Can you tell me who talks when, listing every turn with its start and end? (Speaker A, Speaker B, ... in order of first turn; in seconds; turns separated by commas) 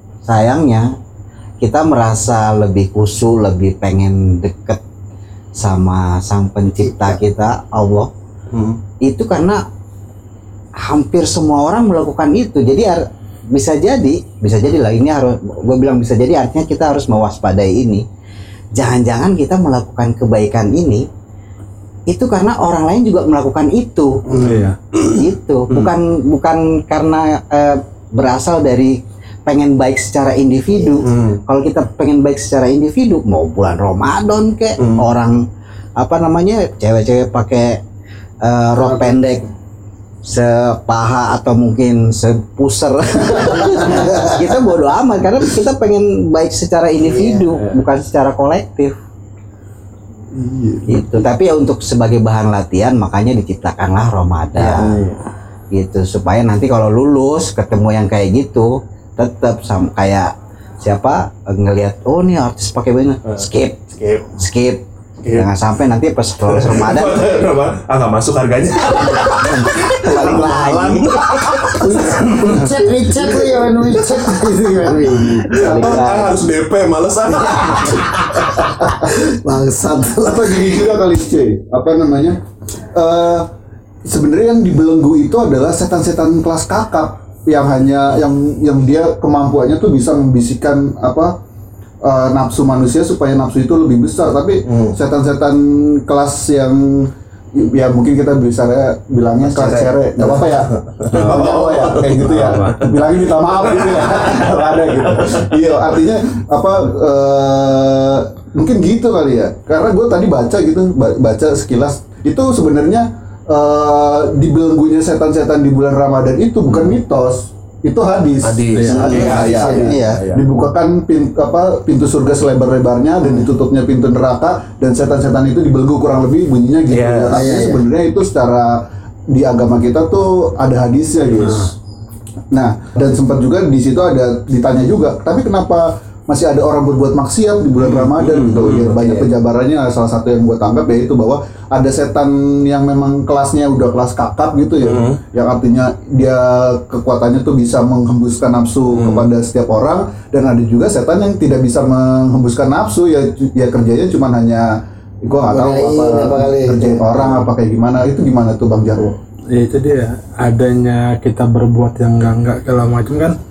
Speaker A: 0.2-0.9, Speaker A: 1.6-4.8, Speaker A: 5.6-8.1, Speaker B: 6.8-7.2, Speaker C: 8.5-8.8, Speaker A: 9.0-9.6, Speaker A: 10.8-18.1, Speaker A: 18.8-21.1, Speaker A: 22.1-24.2, Speaker C: 24.3-25.9, Speaker D: 24.3-24.8, Speaker A: 25.1-35.4, Speaker C: 31.0-31.4, Speaker C: 34.8-35.1, Speaker A: 36.0-37.8, Speaker A: 38.4-39.5, Speaker B: 38.8-39.1, Speaker A: 40.2-48.9, Speaker B: 43.5-44.4, Speaker E: 50.3-51.1, Speaker A: 50.9-54.9, Speaker C: 54.6-55.2, Speaker A: 55.7-67.4, Speaker C: 63.3-64.4, Speaker C: 65.2-65.5, Speaker C: 66.5-72.7, Speaker A: 69.0-71.8, Speaker B: 71.8-76.2, Speaker C: 75.4-78.7, Speaker A: 75.5-76.3, Speaker B: 77.4-80.9, Speaker E: 80.2-82.4, Speaker E: 82.9-83.5, Speaker E: 84.1-91.4, Speaker E: 92.0-131.7, Speaker C: 94.7-95.0, Speaker C: 99.4-105.5, Speaker D: 101.1-101.5, Speaker D: 102.2-102.9, Speaker C: 118.4-120.4, Speaker D: 118.8-119.3, Speaker B: 119.0-119.9, Speaker A: 119.7-120.2, Speaker C: 126.9-127.4, Speaker B: 127.3-127.8, Speaker E: 132.5-154.7, Speaker C: 137.8-139.3, Speaker C: 144.8-145.2, Speaker C: 148.9-149.2, Speaker E: 155.2-159.2, Speaker B: 155.5-157.3, Speaker D: 159.5-163.4